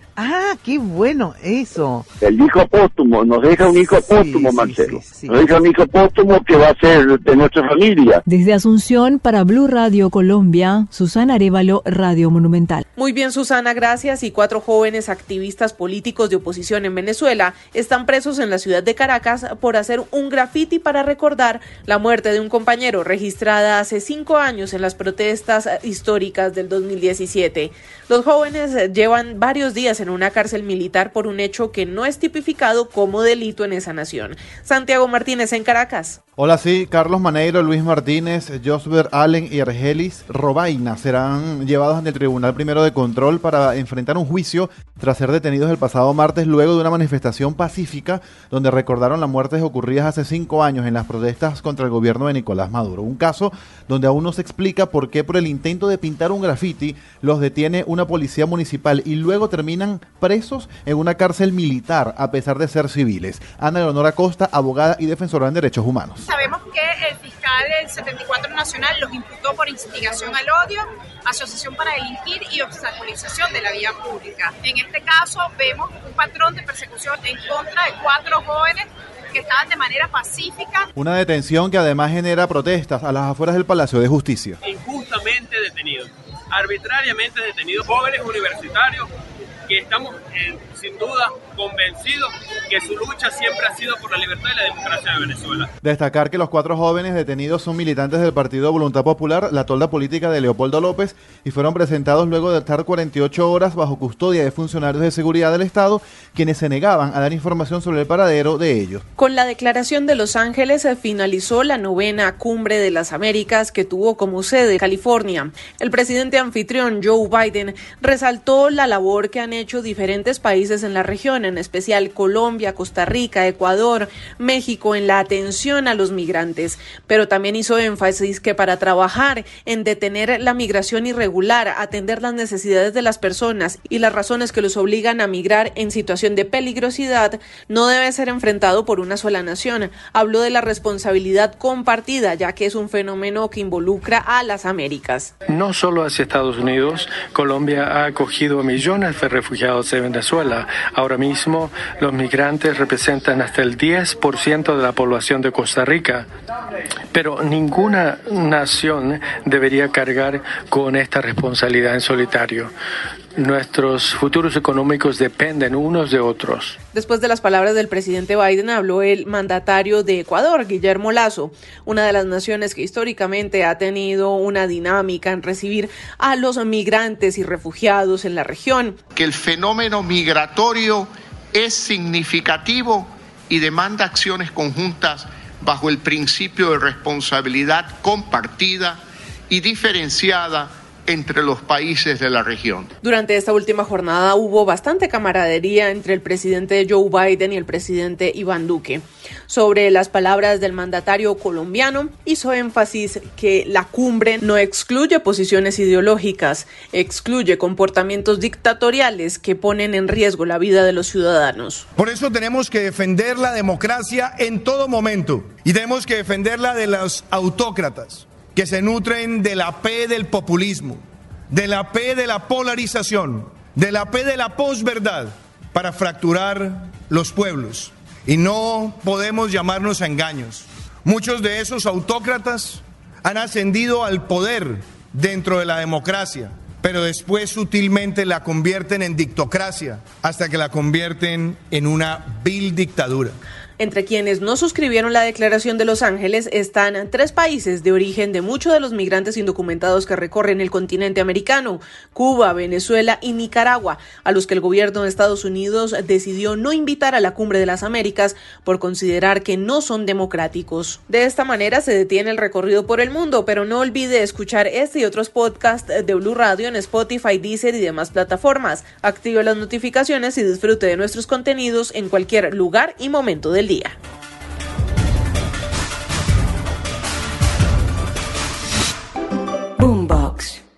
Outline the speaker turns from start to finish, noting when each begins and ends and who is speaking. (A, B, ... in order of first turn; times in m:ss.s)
0:00.2-0:02.0 A
0:02.2-0:08.2 B
0:03.6-0:05.6 A
0:08.3-0:12.8 C
0:13.0-0:36.2 D
0:36.4-1:06.2 E
1:06.3-1:20.9 F
1:21.0-1:24.6 E
1:24.6-1:29.1 G
1:29.7-1:35.7 G
1:35.8-1:49.0 E
1:49.2-2:25.3 D
2:25.5-2:36.3 H
2:37.1-2:42.7 H
2:43.4-2:46.8 H
2:46.9-2:59.0 D
2:59.2-3:12.9 I
3:13.0-3:31.8 D
3:32.0-4:03.4 J
4:03.8-4:34.0 D
4:39.8-4:40.6 A